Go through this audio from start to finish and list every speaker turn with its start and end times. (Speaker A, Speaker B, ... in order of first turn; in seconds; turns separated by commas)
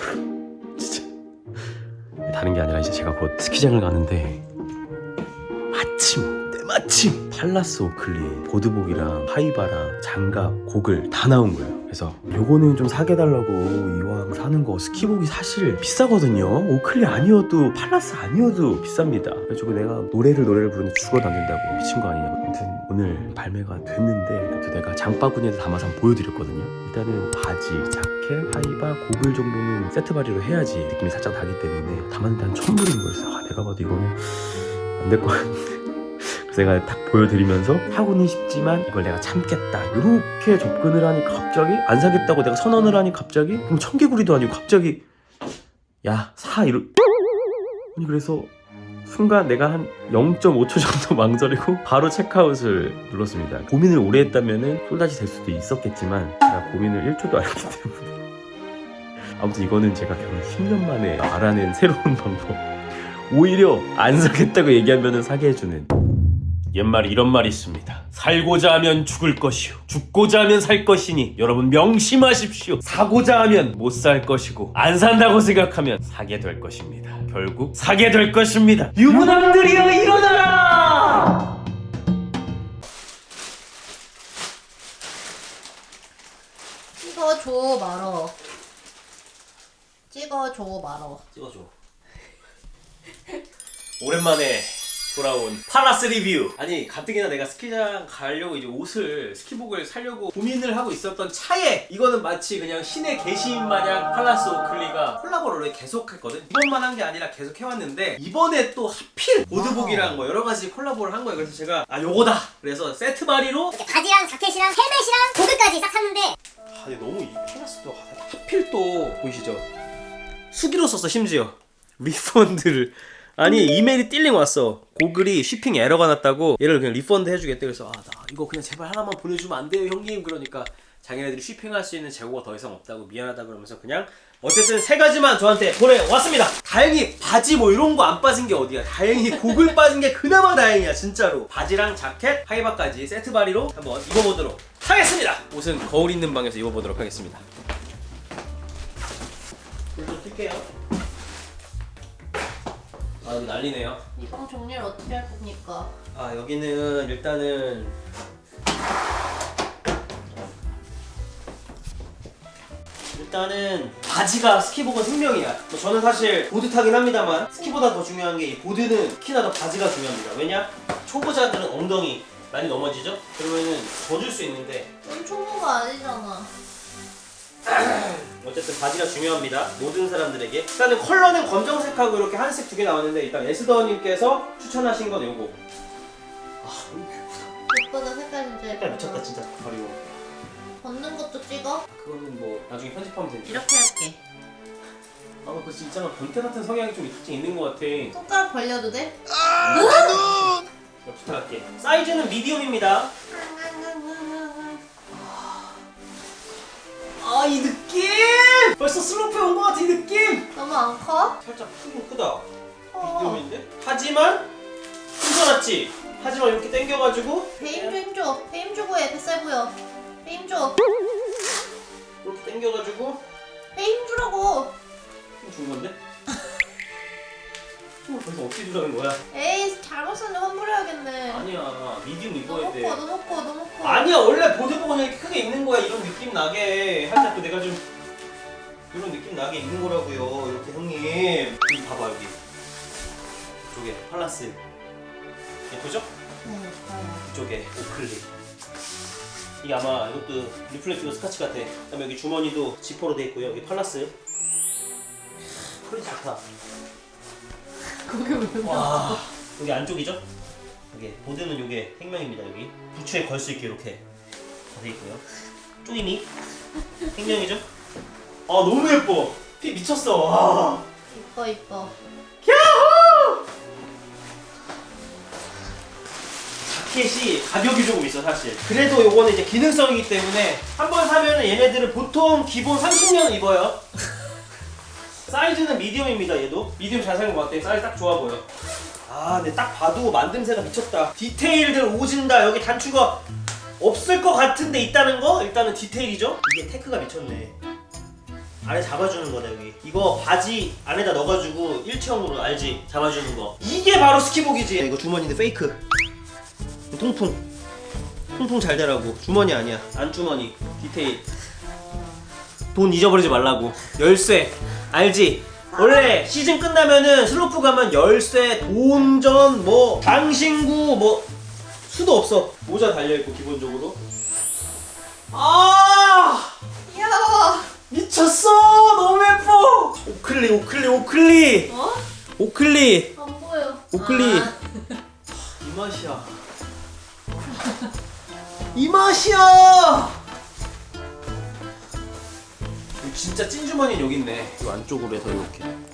Speaker A: 0.8-1.7, Speaker A: 2.2-4.4, Speaker A: 5.7-45.0, Speaker A: 46.0-46.9, Speaker A: 47.9-48.5, Speaker A: 49.0-58.2, Speaker A: 59.4-65.9, Speaker A: 66.7-81.4, Speaker B: 87.0-88.3, Speaker B: 90.1-91.2, Speaker A: 91.3-91.7, Speaker A: 94.0-113.8, Speaker C: 113.7-116.3, Speaker A: 116.7-119.6, Speaker A: 120.5-147.4, Speaker A: 149.9-150.7, Speaker A: 153.2-154.0, Speaker B: 154.2-155.9, Speaker A: 156.1-157.9, Speaker A: 163.1-174.9, Speaker B: 175.0-176.5, Speaker A: 177.7-185.6, Speaker A: 186.6-187.5, Speaker B: 187.7-189.2, Speaker A: 188.7-190.2, Speaker B: 190.8-191.8, Speaker A: 191.9-193.7, Speaker B: 193.4-194.2, Speaker A: 195.4-198.2, Speaker B: 198.1-200.5, Speaker A: 199.6-203.1, Speaker B: 203.3-204.8, Speaker A: 205.1-205.7, Speaker A: 207.2-210.5, Speaker B: 210.5-211.4, Speaker A: 211.4-212.4, Speaker B: 212.9-213.4, Speaker A: 213.0-214.5, Speaker A: 215.2-218.0, Speaker B: 217.6-220.8, Speaker A: 222.2-223.2, Speaker B: 223.7-224.7, Speaker A: 225.4-226.0, Speaker A: 228.1-229.2, Speaker B: 229.3-231.4, Speaker A: 231.3-233.0, Speaker B: 232.4-234.1, Speaker A: 233.8-237.8, Speaker A: 238.9-242.4, Speaker A: 243.7-244.6, Speaker A: 245.7-246.1, Speaker B: 246.4-247.2, Speaker A: 247.2-248.3, Speaker A: 249.6-254.1, Speaker A: 255.8-256.4, Speaker B: 258.1-259.2, Speaker A: 258.6-260.2, Speaker A: 260.9-264.0, Speaker A: 264.7-265.2, Speaker A: 265.8-266.3, Speaker A: 267.1-267.6, Speaker A: 268.5-270.8, Speaker B: 271.1-271.9, Speaker A: 272.4-273.4, Speaker A: 276.6-283.8, Speaker A: 285.3-288.4, Speaker A: 289.1-293.2, Speaker A: 293.8-297.5, Speaker A: 298.6-305.8, Speaker A: 306.9-307.4, Speaker A: 308.3-311.2, Speaker A: 312.7-321.2, Speaker A: 321.9-324.0, Speaker A: 325.3-326.5, Speaker B: 326.9-327.7, Speaker A: 327.9-331.7, Speaker B: 331.7-332.0, Speaker A: 332.4-333.1, Speaker B: 333.1-334.9, Speaker A: 333.9-334.5, Speaker A: 335.6-336.3, Speaker A: 338.7-340.2, Speaker A: 343.0-345.7